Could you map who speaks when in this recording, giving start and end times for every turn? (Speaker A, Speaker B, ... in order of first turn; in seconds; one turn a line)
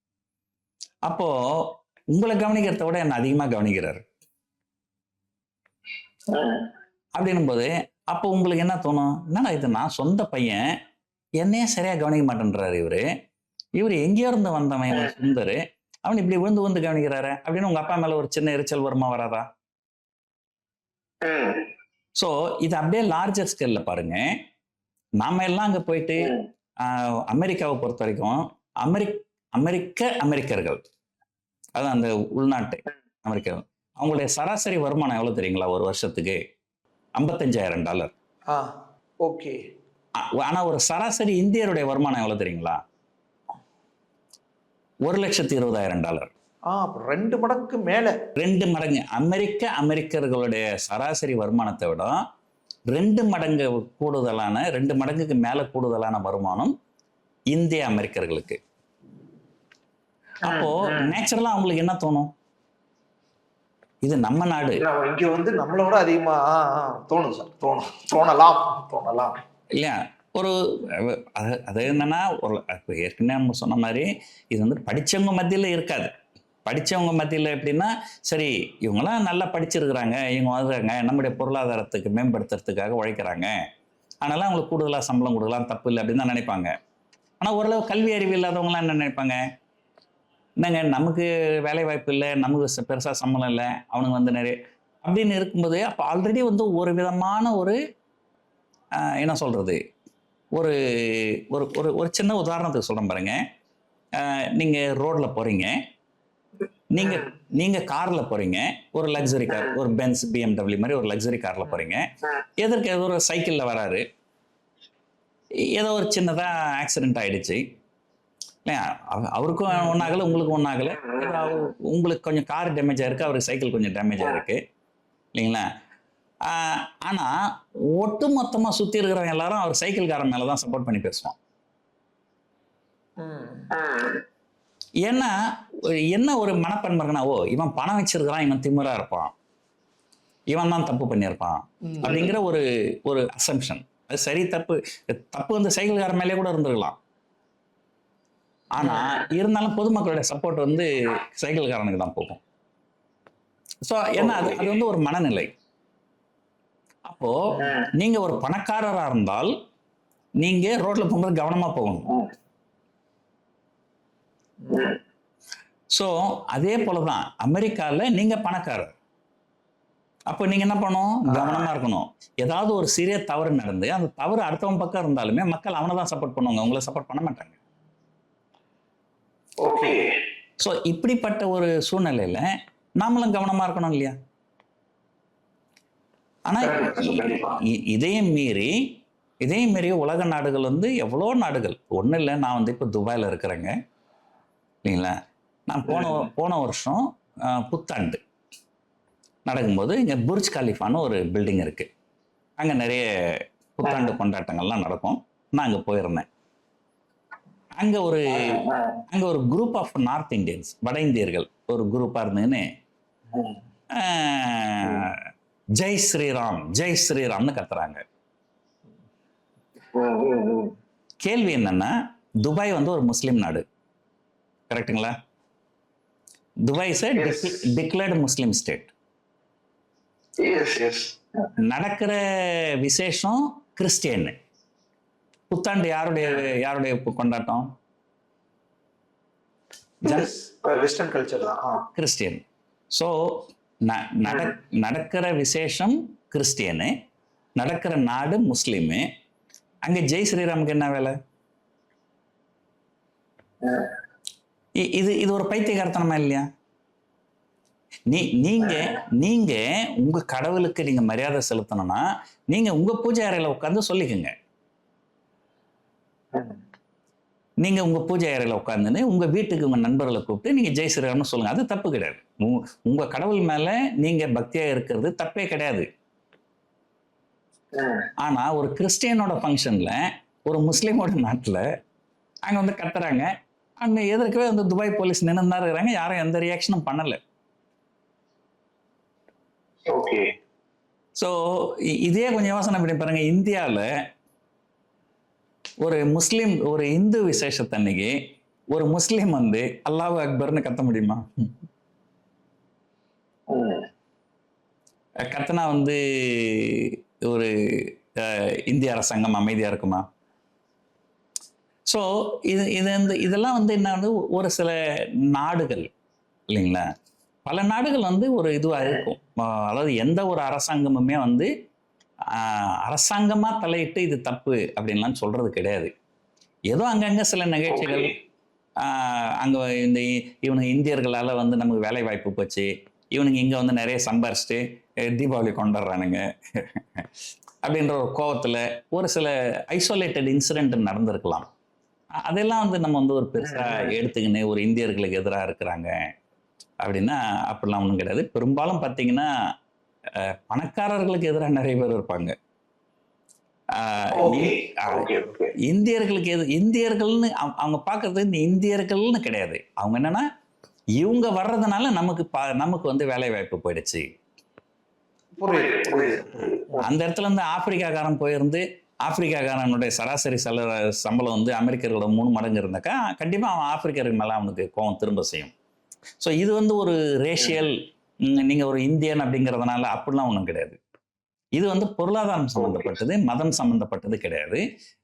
Speaker A: 1.1-4.0
Speaker B: 6.3-6.7
Speaker A: 7.2-10.6
Speaker A: 11.4-13.0
Speaker A: 13.8-19.5
Speaker B: 21.2-21.7
Speaker A: 22.2-24.2
Speaker A: 25.2-30.8
Speaker A: 31.8-36.4
Speaker A: 37.2-38.1
Speaker C: 38.5-39.6
Speaker A: 40.2-42.8
Speaker A: 45.1-46.3
Speaker C: 46.7-48.2
Speaker A: 48.4-52.2
Speaker A: 52.9-56.7
Speaker A: 57.5-58.6
Speaker A: 60.4-62.3
Speaker B: 60.5-61.0
Speaker A: 64.0-64.8
Speaker C: 64.9-69.4
Speaker A: 69.8-76.1
Speaker A: 76.7-83.5
Speaker A: 84.2-86.7
Speaker A: 87.4-89.4
Speaker A: 90.6-97.8
Speaker A: 99.0-99.8
Speaker A: 100.5-103.3
Speaker A: 104.2-105.7
Speaker A: 106.9-112.0
Speaker B: 107.0-107.2
Speaker A: 112.6-114.0
Speaker A: 115.7-117.6
Speaker A: 118.7-124.6
Speaker B: 121.0-121.5
Speaker A: 125.3-125.7
Speaker A: 126.5-127.3
Speaker A: 127.9-131.3
Speaker C: 133.2-133.7
Speaker B: 133.7-134.2
Speaker A: 135.0-135.3
Speaker A: 136.1-139.3
Speaker A: 140.5-147.0
Speaker C: 141.9-142.1
Speaker A: 148.7-152.4
Speaker B: 148.8-149.1
Speaker A: 153.9-155.5
Speaker B: 154.2-154.7
Speaker A: 157.1-159.5
Speaker B: 157.6-157.8
Speaker A: 160.4-162.1
Speaker B: 164.7-165.0
Speaker A: 165.9-168.9
Speaker A: 170.3-177.6
Speaker B: 171.3-171.6
Speaker B: 179.6-180.1
Speaker A: 180.6-182.4
Speaker A: 183.0-184.2
Speaker A: 186.4-188.7
Speaker B: 186.6-187.6
Speaker A: 189.4-193.7
Speaker A: 194.8-195.1
Speaker A: 195.7-198.2
Speaker B: 195.9-196.2
Speaker A: 199.4-201.9
Speaker A: 202.6-203.0
Speaker A: 203.8-206.2
Speaker B: 203.9-204.1
Speaker A: 207.8-208.6
Speaker B: 208.4-209.0
Speaker A: 209.1-212.6
Speaker A: 213.9-215.1
Speaker A: 215.8-218.0
Speaker B: 219.9-220.7
Speaker A: 221.2-223.6
Speaker A: 224.7-225.1
Speaker A: 226.6-228.9
Speaker B: 227.2-227.6
Speaker B: 230.4-231.5
Speaker A: 231.6-232.2
Speaker A: 232.8-234.3
Speaker A: 235.5-237.7
Speaker C: 240.0-241.8
Speaker A: 241.9-246.9
Speaker A: 247.6-249.1
Speaker A: 249.8-251.1
Speaker B: 253.6-253.9
Speaker A: 254.8-256.5
Speaker A: 258.1-264.3
Speaker A: 267.6-275.9
Speaker B: 277.7-278.1
Speaker A: 278.2-281.6
Speaker A: 282.4-283.3
Speaker A: 283.8-287.2
Speaker B: 289.9-290.3
Speaker A: 291.2-293.8
Speaker A: 295.8-298.1
Speaker A: 298.7-301.5
Speaker B: 303.5-303.9
Speaker A: 305.2-310.1
Speaker A: 311.9-314.7
Speaker A: 315.3-315.9
Speaker A: 316.5-316.9
Speaker A: 317.4-321.5
Speaker A: 322.3-325.9
Speaker A: 326.7-328.1
Speaker B: 327.7-328.1
Speaker A: 328.8-337.0
Speaker A: 337.6-341.5
Speaker A: 342.2-345.9
Speaker A: 346.8-349.3
Speaker A: 350.1-352.3
Speaker A: 353.7-355.1
Speaker B: 354.1-355.5
Speaker A: 355.6-360.2
Speaker A: 361.0-364.1
Speaker C: 365.4-366.8
Speaker B: 365.4-366.8
Speaker A: 366.8-375.5
Speaker A: 376.2-380.8
Speaker A: 381.6-384.6